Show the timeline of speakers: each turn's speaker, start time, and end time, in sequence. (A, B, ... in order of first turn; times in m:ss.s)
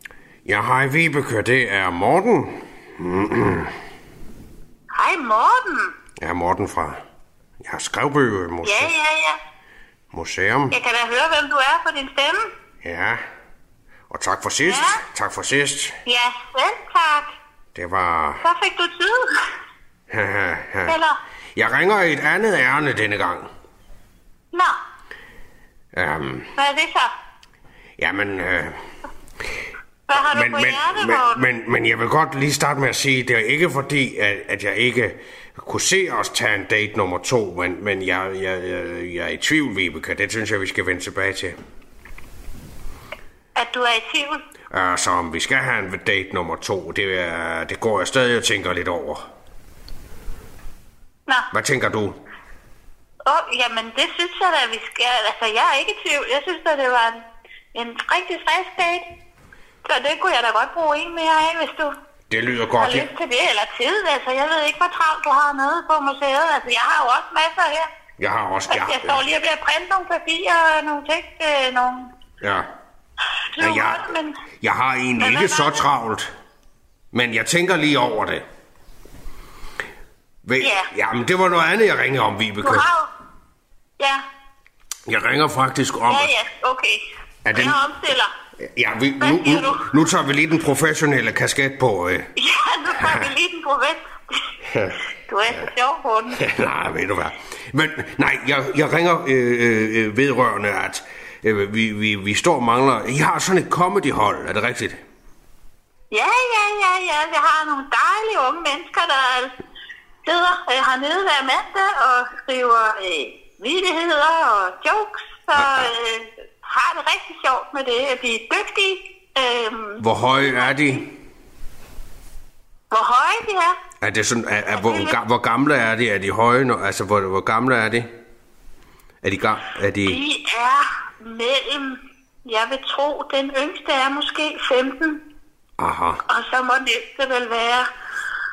0:00.4-0:03.7 A
0:04.9-0:05.9 B
0:06.2-0:07.0 A
0:07.6-0:08.9 A
0:08.6-0:09.4 B
0:10.1-0:10.7 A
0:10.7-0:12.5 B
0:12.8-0:13.2 A
0:14.1-0:16.0 A
0:14.6-0:15.0 B
0:16.0-0:17.3 B
0:17.7-0:18.4 A
0:18.4-0:19.4 B
0:20.1-0:21.0 A
0:20.9-0:21.2 B
0:21.6-0:23.5 A
0:25.9-0:26.5 A
0:26.6-0:27.1 B
0:28.0-0:28.8 A
0:30.1-0:31.4 B
0:30.1-0:41.6 A
0:43.6-0:44.4 B
0:44.7-0:49.3 A
0:51.5-0:52.2 A
0:53.2-0:59.0 B
0:59.8-1:01.9 B
1:02.3-1:03.1 A
1:02.8-1:07.9 B
1:08.2-1:09.2 A
1:08.7-1:12.1 B
1:12.4-1:12.7 A
1:13.5-1:14.4 B
1:13.6-1:14.1 A
1:14.6-1:16.3 A
1:15.2-1:15.9 B
1:17.1-1:18.4 A
1:20.4-1:22.8 A
1:20.6-1:20.9 B
1:22.6-1:23.1 B
1:24.0-1:24.2 B
1:25.1-1:26.3 A
1:26.1-1:27.0 B
1:27.4-1:27.8 A
1:27.5-1:28.3 B
1:28.6-1:32.3 A
1:29.2-1:29.9 B
1:32.4-1:34.0 B
1:33.0-1:33.3 A
1:34.6-1:35.0 A
1:35.3-1:36.4 B
1:36.4-1:45.0 A
1:46.1-1:49.5 B
1:50.2-2:01.0 B
1:55.6-1:55.9 A
2:00.0-2:01.1 A
2:02.9-2:03.8 B
2:04.0-2:08.1 A
2:04.7-2:05.2 B
2:09.2-2:10.2 A
2:10.0-2:15.2 B
2:15.8-2:16.2 A
2:16.3-2:17.9 B